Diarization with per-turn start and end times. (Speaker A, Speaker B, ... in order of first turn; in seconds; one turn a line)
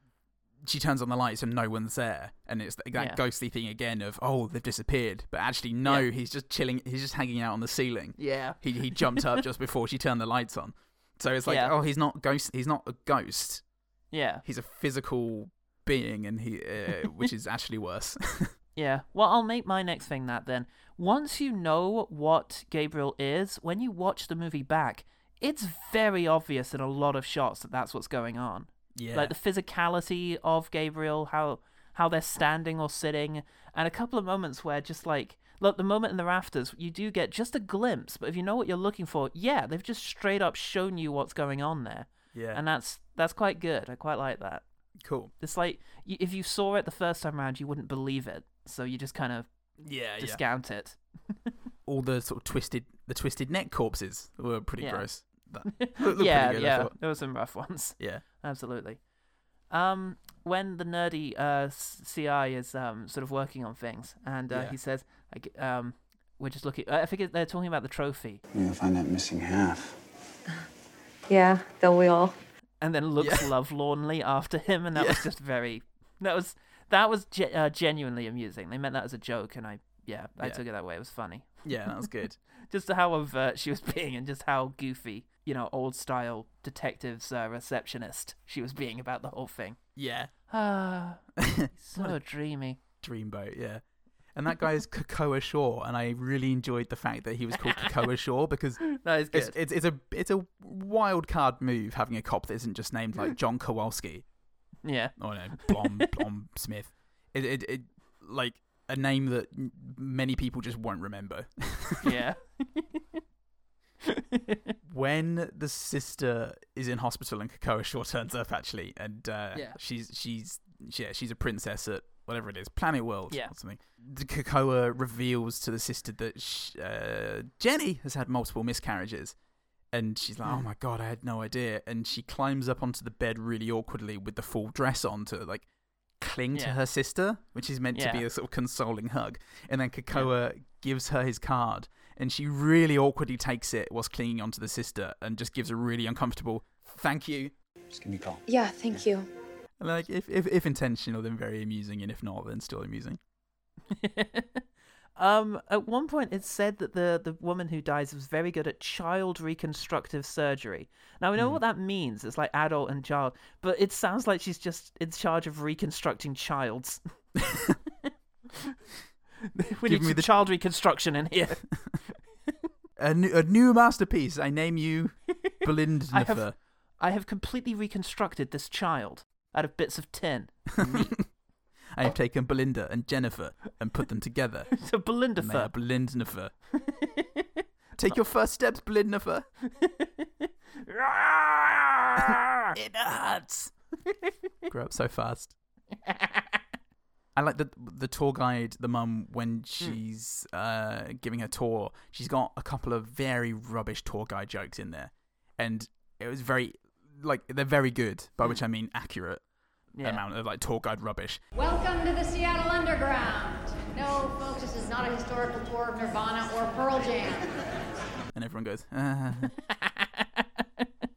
Speaker A: 0.6-13.6
Speaker B: 8.2-9.4
Speaker B: 11.4-11.7
Speaker B: 14.1-14.4
Speaker A: 14.4-18.5
Speaker B: 18.8-44.6
Speaker A: 28.9-29.3
Speaker A: 42.3-42.6
Speaker A: 45.0-45.3
Speaker B: 45.4-49.5
Speaker A: 49.8-50.4
Speaker B: 50.1-51.0
Speaker A: 51.9-56.9
Speaker B: 54.8-55.0
Speaker B: 55.6-59.0
Speaker B: 59.7-68.4
Speaker A: 64.5-64.8
Speaker C: 68.5-70.0
Speaker D: 71.3-72.3
Speaker B: 72.8-82.0
Speaker A: 73.2-73.5
Speaker A: 74.9-75.2
Speaker A: 81.6-82.4
Speaker B: 82.7-89.8
Speaker A: 90.0-90.3
Speaker B: 90.5-91.2
Speaker A: 91.4-92.2
Speaker B: 91.7-92.8
Speaker A: 93.0-93.8
Speaker A: 94.3-104.2
Speaker B: 98.8-99.6
Speaker B: 104.8-106.2
Speaker A: 105.2-112.2
Speaker B: 112.0-113.0
Speaker B: 114.0-114.7
Speaker A: 114.8-129.3
Speaker A: 129.9-135.7
Speaker A: 136.2-147.5
Speaker B: 137.9-138.2
Speaker C: 147.9-149.0
Speaker D: 148.4-149.3
Speaker A: 149.8-153.2
Speaker B: 153.9-154.7
Speaker B: 155.2-167.0
Speaker A: 167.5-167.8
Speaker B: 168.1-168.7
Speaker B: 169.4-172.1
Speaker A: 169.8-170.4
Speaker A: 173.0-176.5
Speaker B: 176.1-176.4
Speaker B: 177.0-181.2
Speaker A: 180.8-181.2
Speaker A: 181.9-184.8
Speaker B: 184.7-185.7
Speaker A: 185.3-186.5
Speaker B: 186.8-187.6
Speaker A: 188.0-189.5
Speaker B: 189.7-192.7
Speaker A: 192.2-193.7
Speaker A: 194.7-195.5
Speaker B: 196.1-196.6
Speaker A: 197.3-209.4
Speaker B: 209.9-210.2
Speaker A: 210.0-211.4
Speaker E: 211.5-217.6
Speaker A: 218.3-219.5
Speaker B: 219.6-220.9